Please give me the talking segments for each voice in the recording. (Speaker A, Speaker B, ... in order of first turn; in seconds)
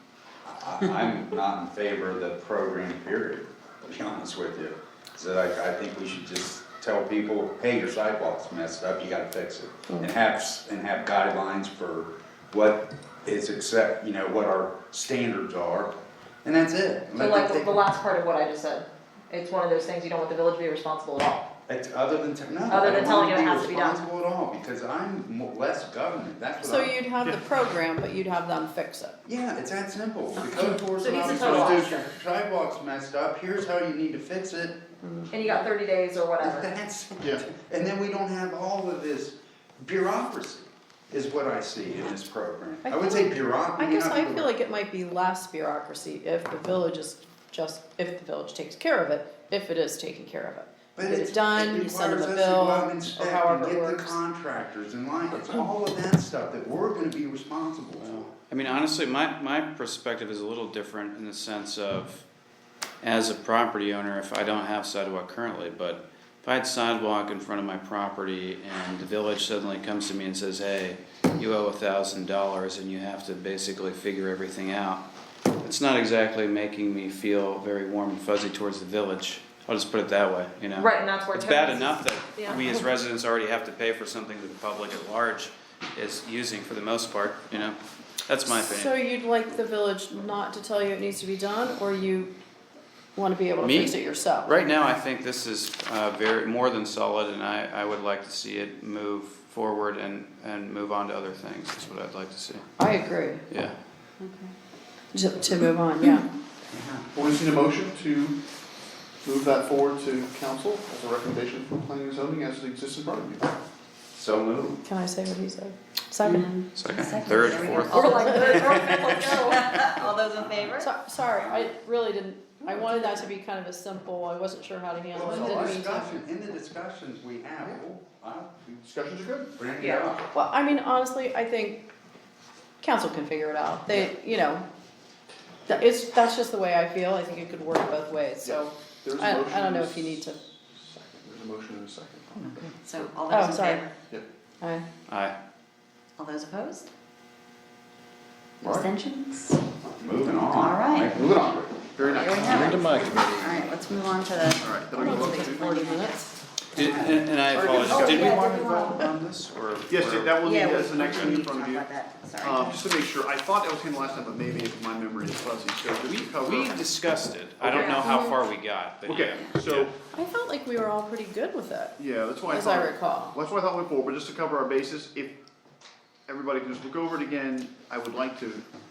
Speaker A: 0.4-17.8, 21.7-26.9, 29.2-34.8, 36.4-44.5, 50.9-58.3, 106.7-107.1, 114.2-114.8, 118.7-119.1, 119.8-120.7, 121.3-121.7, 125.1-128.5, 129.6-130.3, 150.0-151.8, 156.8-159.2
Speaker B: 17.1-21.5, 22.7-24.0, 31.0-32.1, 35.3-36.7, 80.7-82.8, 117.9-119.9, 129.8-130.1, 167.7-168.0
Speaker C: 26.6-29.2, 30.6-31.3, 35.0-35.3, 42.8-54.2, 88.6-92.3, 93.2-94.5, 102.8-103.4, 105.1-106.2, 114.8-116.5, 118.1-118.5, 120.8-126.2, 130.3-131.8, 132.8-134.7, 135.7-140.4, 143.3-143.9, 154.9-156.3, 167.9-168.4, 170.1-173.3
Speaker D: 31.3-32.0, 37.2-37.5, 107.1-108.4, 109.2-113.5, 125.4-125.7, 128.6-129.5, 138.4-143.1, 148.6-148.9, 151.1-152.8, 154.6-155.8, 157.9-158.2, 159.9-166.8, 167.6-168.1, 169.0-169.9, 172.0-175.3, 176.3-178.6
Speaker E: 58.0-62.2, 63.0-75.0, 75.6-89.0, 93.6-102.9, 103.5-103.8, 116.7-118.5, 145.1-145.3, 152.4-153.6, 156.7-161.3, 166.4-169.9
Speaker F: 104.2-104.5, 116.2-118.5, 119.5-120.9, 142.8-143.9, 146.2-146.9, 148.7-149.6, 150.5-151.2, 152.0-156.2, 157.5-159.0, 160.5-162.8